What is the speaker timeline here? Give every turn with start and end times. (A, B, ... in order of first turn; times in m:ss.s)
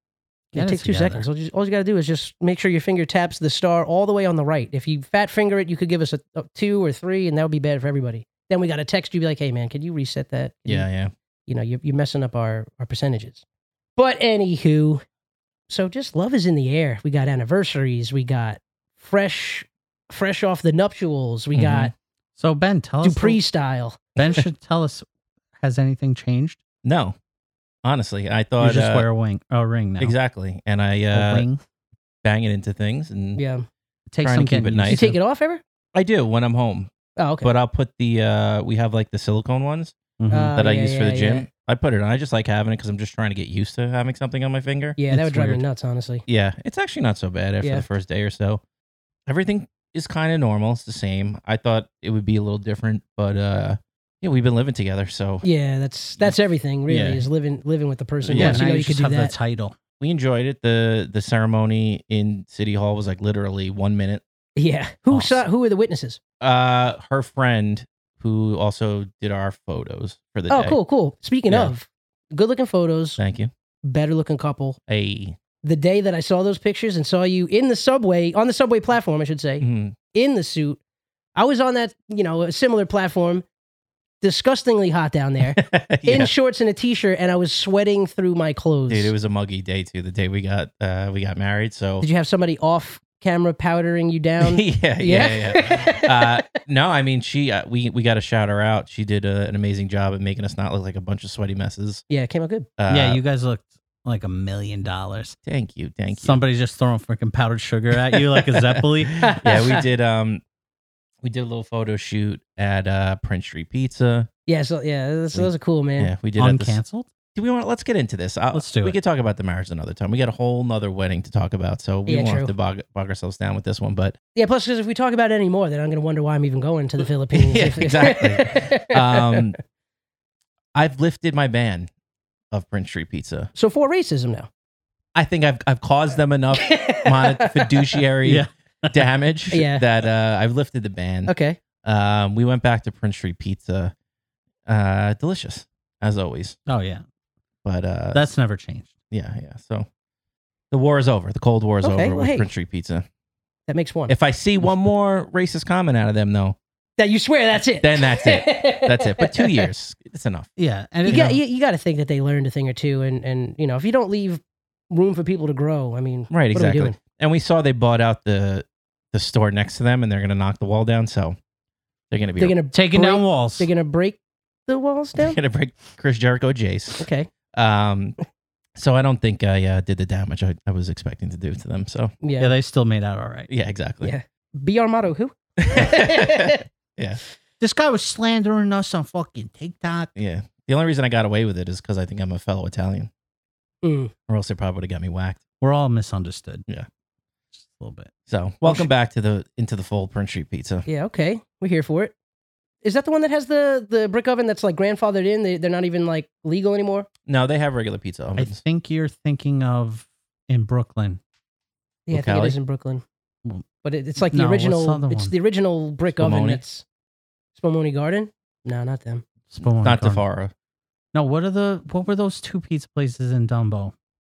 0:00.5-0:10.9 A
0:00.6-0:01.2 B
0:10.7-0:11.1 C
0:11.5-0:13.4 A
0:14.0-0:15.0 A
0:15.7-0:21.9 A
0:21.6-0:21.9 C
0:22.4-0:23.4 B
0:23.0-0:24.2 A
0:24.2-0:25.0 B
0:25.6-0:26.6 B
0:26.8-0:27.2 C
0:27.8-0:29.1 C
0:28.6-0:30.2 B
0:30.0-0:31.5 C
0:31.1-0:31.6 B
0:32.2-0:33.4 C
0:33.4-0:33.7 A
0:34.1-0:35.1 B
0:34.2-0:35.2 C
0:34.9-0:35.6 A
0:35.9-0:36.9 C
0:37.2-0:37.5 A
0:37.4-0:40.0 C
0:40.2-0:40.6 B
0:40.3-0:41.5 A
0:40.6-0:45.0 C
0:45.0-0:46.2 A
0:45.1-0:45.6 B
0:46.3-0:48.6 C
0:47.6-0:47.9 A
0:49.3-0:55.5 C
0:55.4-0:59.3 A
0:56.9-0:57.3 C
0:58.2-0:58.6 C
0:58.3-0:59.8 B
1:00.0-1:04.2 C
1:04.6-1:06.2 A
1:06.4-1:10.8 C
1:10.5-1:13.2 A
1:13.2-1:13.5 C
1:13.8-1:14.8 A
1:14.9-1:15.4 C
1:15.6-1:20.8 A
1:19.6-1:20.0 C
1:21.4-1:23.4 A
1:24.2-1:29.1 A
1:25.5-1:26.3 C
1:28.9-1:32.1 C
1:32.0-1:36.3 A
1:34.4-1:42.0 C
1:42.1-1:42.7 A
1:42.8-1:43.2 C
1:42.9-1:45.4 B
1:45.4-1:46.4 C
1:46.2-1:49.3 B
1:48.1-1:50.4 C
1:49.2-1:49.8 A
1:51.2-1:54.3 C
1:54.5-1:56.1 A
1:55.3-1:56.8 C
1:56.4-1:57.1 B
1:57.4-2:04.2 C
1:58.5-1:59.0 B
2:02.1-2:02.5 A
2:04.4-2:09.5 A
2:07.3-2:09.6 C
2:10.8-2:11.9 C
2:12.5-2:13.5 C
2:13.6-2:14.5 A
2:15.2-2:23.9 C
2:16.6-2:17.8 A
2:18.2-2:19.0 B
2:19.5-2:19.8 A
2:21.3-2:21.6 A
2:24.7-2:26.6 C
2:26.7-2:27.0 B
2:27.6-2:28.3 C
2:28.1-2:28.9 B
2:29.1-2:29.9 C
2:30.7-2:33.0 C
2:31.8-2:32.5 A
2:33.7-2:34.2 A
2:34.1-2:36.6 C
2:37.0-2:39.7 A
2:37.8-2:40.5 C
2:40.6-2:41.4 B
2:41.0-2:47.0 A
2:46.3-2:51.4 C
2:52.1-2:52.6 C
2:52.4-2:55.4 A
2:52.7-2:53.7 B
2:55.2-2:58.2 C
2:57.0-2:57.3 A
2:58.8-3:02.1 C
3:02.2-3:02.5 A
3:02.4-3:03.5 B
3:03.5-3:04.2 C
3:04.0-3:06.6 A
3:05.6-3:07.2 C
3:07.6-3:10.1 B
3:10.2-3:13.1 C
3:13.8-3:14.1 A
3:14.3-3:15.4 C
3:15.6-3:16.6 B
3:17.6-3:18.1 B
3:18.3-3:20.9 C
3:18.6-3:18.9 A
3:20.9-3:22.1 A
3:22.8-3:27.1 A
3:27.3-3:28.6 C
3:28.4-3:31.2 B
3:32.1-3:33.0 A
3:32.1-3:32.6 C
3:33.8-3:36.8 A
3:34.2-3:35.3 B
3:36.2-3:36.6 C
3:37.6-3:39.2 A
3:39.5-3:40.2 B
3:39.8-3:40.5 C
3:41.1-3:43.9 B